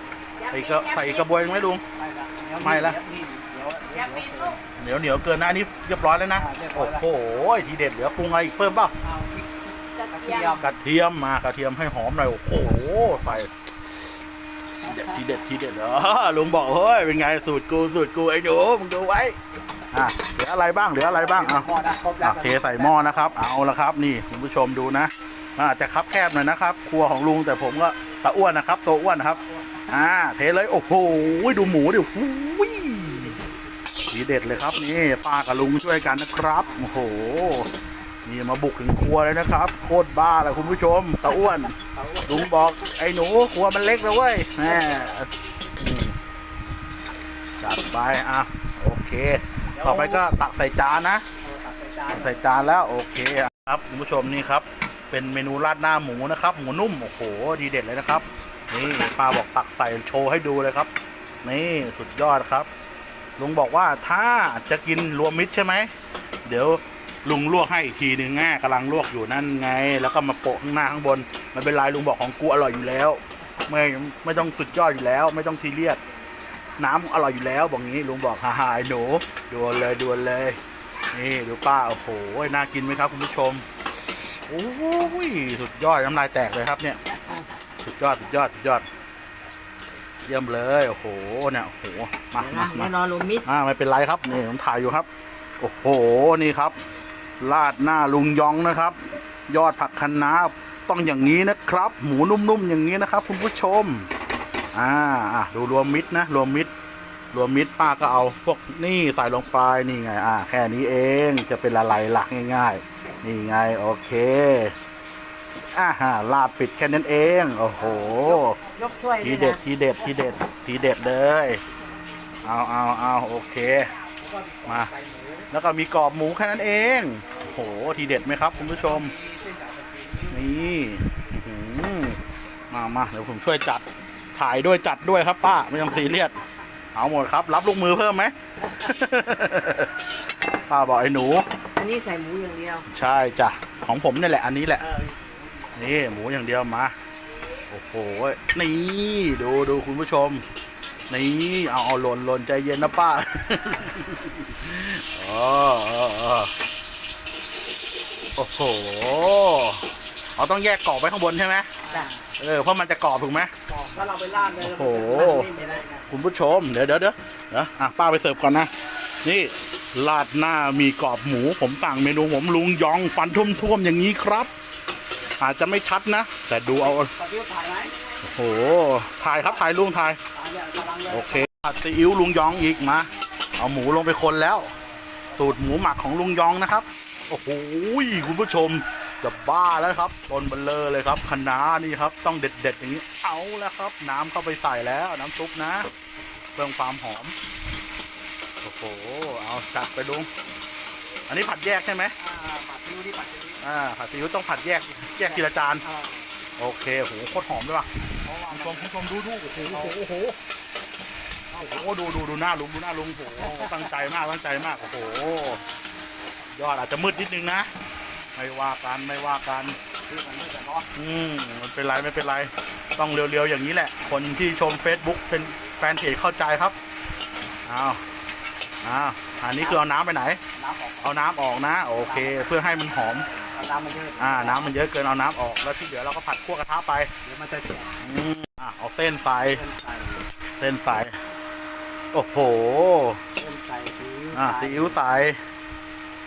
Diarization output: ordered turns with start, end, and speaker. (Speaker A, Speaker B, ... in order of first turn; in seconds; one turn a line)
Speaker A: 0.5-1.8
Speaker B: 1.9-4.7
Speaker A: 2.6-3.0
Speaker A: 4.8-8.9
Speaker B: 6.3-7.0
Speaker B: 9.0-10.7
Speaker C: 10.1-10.5
Speaker A: 10.6-13.5
Speaker B: 12.6-13.4
Speaker A: 14.7-19.4
Speaker B: 14.9-15.2
Speaker A: 19.9-21.7
Speaker B: 21.0-23.4
Speaker A: 22.2-33.4
Speaker B: 29.4-29.9
Speaker A: 34.1-37.7
Speaker B: 36.6-36.9
Speaker A: 38.2-46.1
Speaker B: 40.5-42.5
Speaker B: 44.6-45.1
Speaker A: 47.6-51.2
Speaker B: 49.7-50.3
Speaker B: 51.4-52.5
Speaker A: 52.1-60.9
Speaker A: 61.4-62.7
Speaker A: 63.4-65.9
Speaker A: 66.5-76.0
Speaker A: 76.8-80.6
Speaker A: 81.1-87.0
Speaker A: 87.8-88.8
Speaker A: 90.2-95.1
Speaker C: 92.4-93.4
Speaker A: 95.6-96.8
Speaker A: 97.4-104.1
Speaker A: 104.7-106.7
Speaker A: 107.3-114.7
Speaker A: 115.7-118.6
Speaker B: 117.8-118.5
Speaker C: 118.6-119.6
Speaker A: 119.2-121.6
Speaker A: 122.4-123.9
Speaker B: 124.2-125.5
Speaker A: 124.7-124.9
Speaker A: 125.5-129.1
Speaker B: 128.1-130.8
Speaker A: 130.3-133.8
Speaker A: 134.3-136.3
Speaker A: 136.9-139.9
Speaker A: 140.7-141.5
Speaker C: 141.7-142.8
Speaker A: 142.9-144.9
Speaker B: 144.8-146.1
Speaker A: 145.7-146.9
Speaker A: 147.7-150.4
Speaker A: 151.1-156.5
Speaker A: 158.4-161.7
Speaker B: 161.8-162.3
Speaker A: 162.4-163.5
Speaker B: 163.7-166.1
Speaker A: 164.6-165.5
Speaker A: 166.1-168.7
Speaker A: 169.2-174.5
Speaker A: 175.4-177.1
Speaker B: 176.7-177.9
Speaker A: 178.2-180.2
Speaker B: 180.3-181.5
Speaker A: 181.1-184.7
Speaker A: 185.3-195.9
Speaker A: 196.6-197.3
Speaker A: 198.6-200.3
Speaker A: 201.3-202.1
Speaker B: 202.2-203.6
Speaker A: 203.6-205.8
Speaker B: 205.2-206.3
Speaker A: 206.6-207.9
Speaker B: 208.2-208.9
Speaker A: 208.5-210.4
Speaker B: 209.4-210.0
Speaker B: 211.5-211.9
Speaker A: 211.6-215.6
Speaker B: 213.2-213.9
Speaker A: 216.5-217.7
Speaker A: 218.3-219.8
Speaker B: 220.1-220.9
Speaker A: 220.9-226.7
Speaker A: 227.7-228.0
Speaker A: 228.8-230.4
Speaker B: 229.6-229.8
Speaker B: 230.6-231.2
Speaker A: 231.0-233.3
Speaker B: 232.0-232.5
Speaker B: 233.3-234.7
Speaker A: 234.2-237.1
Speaker B: 237.2-238.0
Speaker A: 238.0-239.6
Speaker B: 239.5-240.2
Speaker A: 240.6-241.2
Speaker A: 242.1-243.2
Speaker B: 243.3-245.0
Speaker A: 244.3-245.4